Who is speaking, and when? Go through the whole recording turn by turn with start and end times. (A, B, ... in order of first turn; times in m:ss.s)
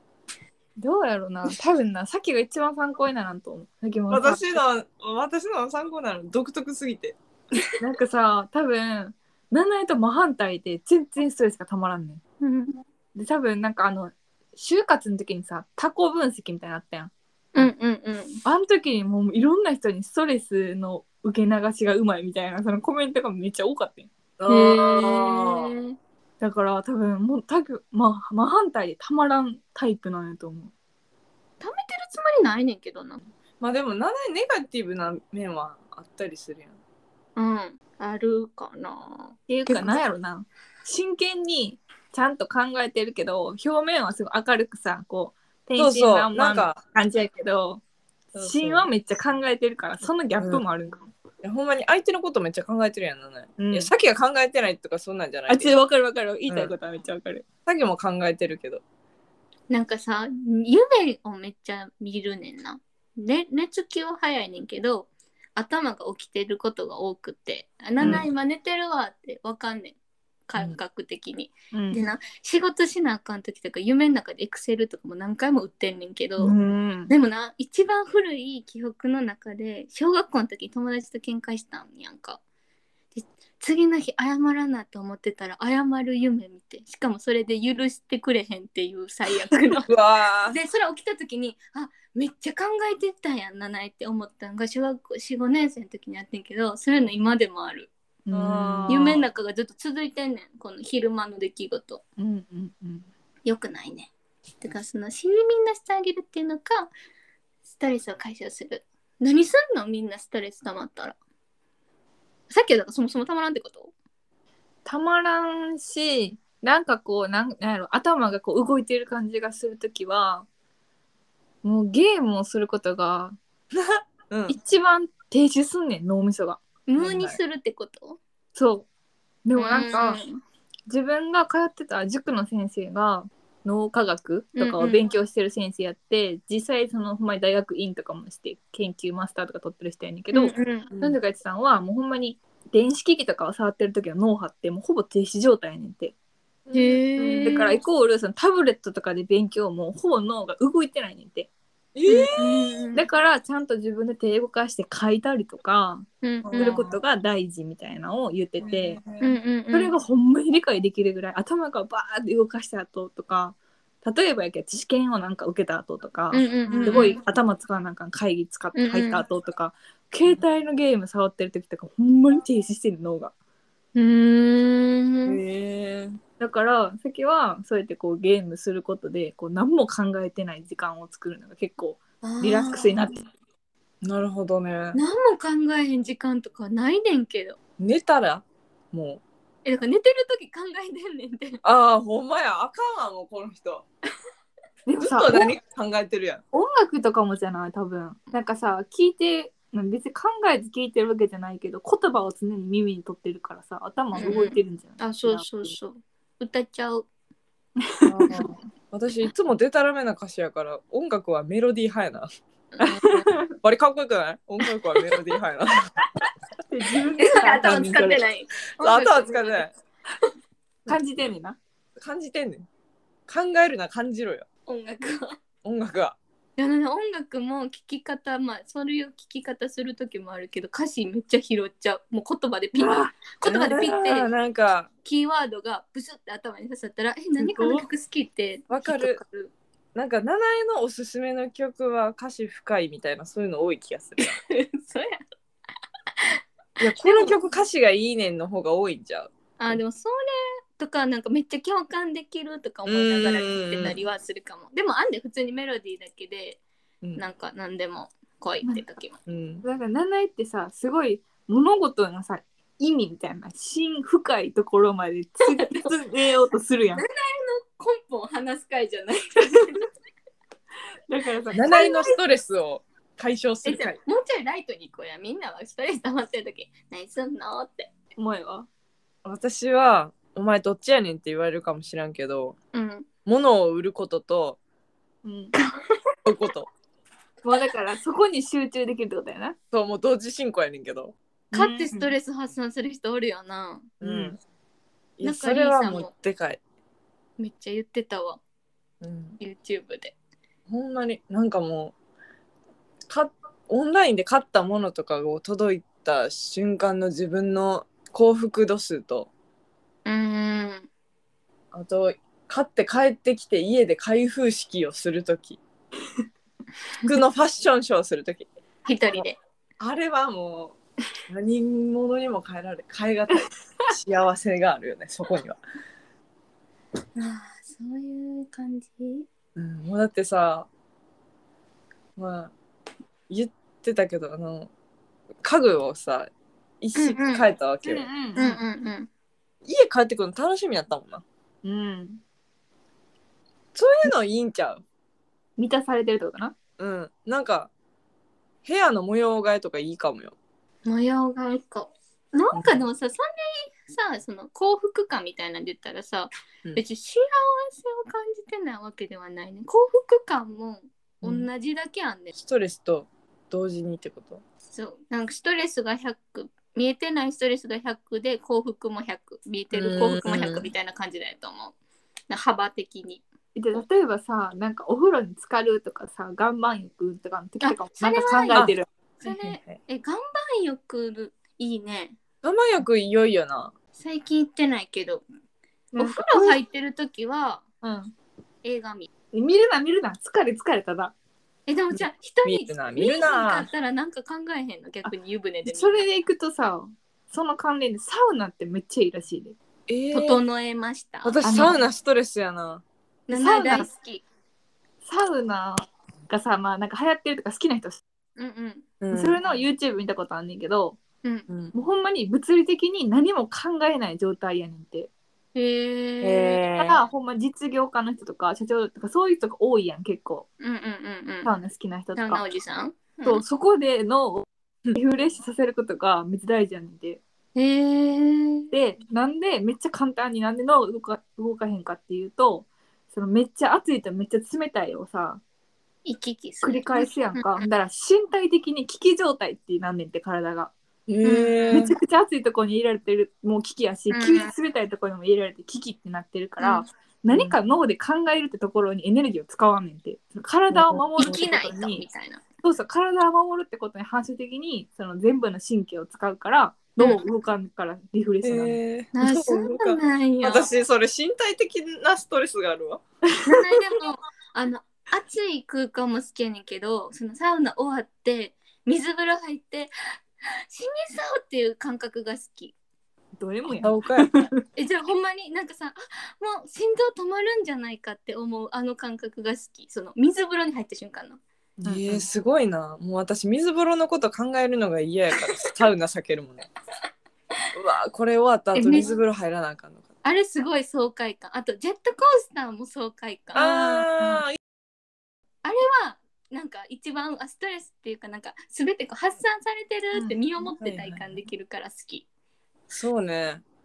0:00.8-0:04.6 A
0:04.1-0:07.2 B
0:07.8-0:12.2 A
0:12.4-0:12.8 C
0:13.2-0:17.7 A
0:17.6-0:18.4 C
0:18.4-0:24.1 A
0:24.4-0:25.7 B
0:24.5-0:26.0 C
0:26.4-0:30.7 A
0:31.6-0:33.2 C
0:33.6-0:36.8 B
0:37.4-0:39.4 C
0:39.5-0:47.8 A
0:39.7-0:40.0 B
0:45.8-0:46.8 B
0:48.3-0:51.1 A
0:48.4-0:48.9 B
0:51.4-0:55.8 B
0:53.6-0:53.9 A
0:55.5-0:57.5 A
0:56.5-0:56.7 B
0:57.7-0:58.8 B
0:59.7-1:10.0 C
1:08.0-1:08.3 B
1:08.0-1:08.3 A
1:10.5-1:16.6 C
1:11.7-1:12.0 A
1:16.4-1:17.1 A
1:17.1-1:22.4 C
1:23.1-1:29.9 C
1:29.9-1:30.6 B
1:30.5-1:37.9 C
1:38.3-1:39.0 A
1:38.3-1:39.3 B
1:38.9-1:42.0 C
1:42.2-1:43.1 A
1:43.4-1:46.9 C
1:47.7-1:51.2 C
1:52.5-1:53.9 C
1:54.9-2:00.5 A
2:01.6-2:03.4 A
2:04.3-2:04.6 B
2:04.5-2:06.6 A
2:06.9-2:08.2 C
2:07.0-2:07.4 B
2:08.6-2:08.9 A
2:09.4-2:10.3 A
2:09.6-2:10.4 C
2:10.9-2:26.1 A
2:14.6-2:15.1 C
2:20.3-2:20.9 C
2:20.9-2:21.2 B
2:26.7-2:27.8 B
2:26.7-2:27.8 C
2:27.4-2:31.5 A
2:32.0-2:32.8 B
2:32.1-2:33.1 C
2:32.9-2:39.0 A
2:36.2-2:36.9 C
2:36.4-2:37.0 B
2:38.6-2:39.3 B
2:39.2-2:39.9 C
2:39.7-2:53.3 A
2:46.3-2:47.2 C
2:46.7-2:47.1 B
2:48.7-2:49.2 C
2:54.0-2:55.4 C
2:55.3-2:56.2 B
2:56.4-3:03.2 A
3:02.2-3:03.0 C
3:04.0-3:05.0 B
3:04.9-3:07.6 C
3:07.8-3:09.2 B
3:09.6-3:11.6 C
3:11.6-3:13.8 B
3:14.9-3:15.5 A
3:15.0-3:16.4 B
3:16.5-3:25.7 A
3:24.2-3:27.1 C
3:27.8-3:28.4 A
3:28.1-3:32.3 B
3:32.8-3:35.9 B
3:32.9-3:33.5 A
3:36.6-3:38.2 A
3:37.2-3:39.7 C
3:37.6-3:37.9 B
3:38.8-3:39.7 B
3:40.9-3:41.6 A
3:42.0-3:42.7 B
3:43.3-3:44.4 B
3:44.7-3:45.4 C
3:45.6-3:46.2 B
3:46.6-3:54.3 C
3:52.8-3:53.2 A
3:53.4-3:54.9 B
3:55.0-3:59.5 C
3:57.4-3:57.9 A
3:58.7-3:59.2 B
4:00.0-4:04.4 B
4:04.2-4:05.2 C
4:06.8-4:09.8 B
4:07.0-4:07.4 C
4:09.6-4:16.6 C
4:12.9-4:14.0 B
4:17.2-4:19.2 C
4:19.3-4:19.6 B
4:19.6-4:27.0 A
4:25.5-4:25.8 C
4:27.0-4:29.9 C
4:31.1-4:32.2 A
4:31.5-4:34.0 B
4:31.7-4:32.1 C
4:33.6-4:37.9 C
4:38.2-4:38.7 A
4:39.2-4:42.6 B
4:42.7-4:43.1 C
4:43.2-4:44.6 B
4:45.2-4:45.5 A
4:46.3-4:46.7 B
4:47.4-4:49.6 A
4:49.7-4:51.2 B
4:51.5-4:52.2 A
4:51.5-4:53.9 C
4:54.0-4:54.4 A
4:54.0-4:54.4 B
4:55.2-4:56.6 B
4:55.2-4:56.1 C
4:57.4-4:58.4 C
4:59.0-4:59.4 B
4:59.4-5:00.1 C
5:00.7-5:01.9 B
5:03.1-5:09.3 B
5:10.0-5:10.9 C
5:11.7-5:15.6 B
5:17.0-5:18.5 B
5:18.8-5:19.4 C
5:19.8-5:20.8 B
5:21.3-5:25.6 B
5:27.2-5:29.3 C
5:29.6-5:30.7 B
5:32.2-5:32.5 B
5:33.3-5:34.7 B
5:35.4-5:38.1 B
5:37.0-5:37.5 C
5:37.8-5:38.6 A
5:38.4-5:39.1 C
5:39.7-5:41.2 B
5:41.6-5:42.2 A
5:43.8-5:44.8 B
5:45.6-5:46.6 A
5:46.8-5:47.7 B
5:48.6-5:50.4 B
5:50.8-6:02.3 C
6:02.4-6:04.4 B
6:04.7-6:11.8 C
6:09.7-6:10.7 B
6:12.3-6:13.2 C
6:13.6-6:18.9 A
6:17.6-6:22.2 C
6:18.6-6:19.8 B
6:22.4-6:23.7 B
6:24.0-6:25.2 C
6:25.9-6:26.6 A
6:26.0-6:27.6 C
6:27.8-6:28.1 A
6:28.6-6:29.1 C
6:29.3-6:31.1 A
6:31.7-6:36.0 C
6:31.9-6:33.7 B
6:35.0-6:39.6 A
6:39.9-6:40.4 B
6:40.1-6:41.8 C
6:41.2-6:42.8 B
6:41.4-6:41.8 A
6:43.3-6:44.2 C
6:43.3-6:43.9 A
6:45.0-6:45.8 A
6:46.3-6:48.0 A
6:48.4-6:48.9 C
6:49.0-6:49.4 B
6:49.1-6:51.0 A
6:51.5-6:51.7 B
6:51.7-6:55.1 A
6:55.5-6:56.6 C
6:56.2-6:57.0 B
6:56.8-7:00.5 A
7:00.6-7:01.5 C
7:01.4-7:02.5 A
7:02.2-7:03.4 C
7:03.2-7:07.2 A
7:07.6-7:08.7 C
7:08.7-7:15.4 A
7:16.0-7:17.6 C
7:16.6-7:20.7 A
7:21.1-7:22.0 B
7:21.2-7:21.9 C
7:21.7-7:32.0 A
7:24.1-7:24.5 C
7:26.6-7:26.8 C
7:27.3-7:27.6 B
7:30.7-7:31.4 B
7:31.2-7:32.4 C
7:32.6-7:38.8 A
7:38.4-7:43.0 B
7:39.1-7:40.7 C
7:43.4-7:49.9 C
7:50.5-7:52.8 C
7:53.4-7:54.6 A
7:53.8-7:54.5 B
7:54.8-8:01.4 C
8:01.8-8:06.7 B
8:01.8-8:02.3 A
8:07.8-8:10.1 B
8:08.7-8:09.1 C
8:10.2-8:14.1 C
8:13.6-8:14.6 B
8:14.2-8:14.4 A
8:15.6-8:22.3 C
8:20.1-8:20.4 A
8:20.8-8:21.4 B
8:22.9-8:23.6 B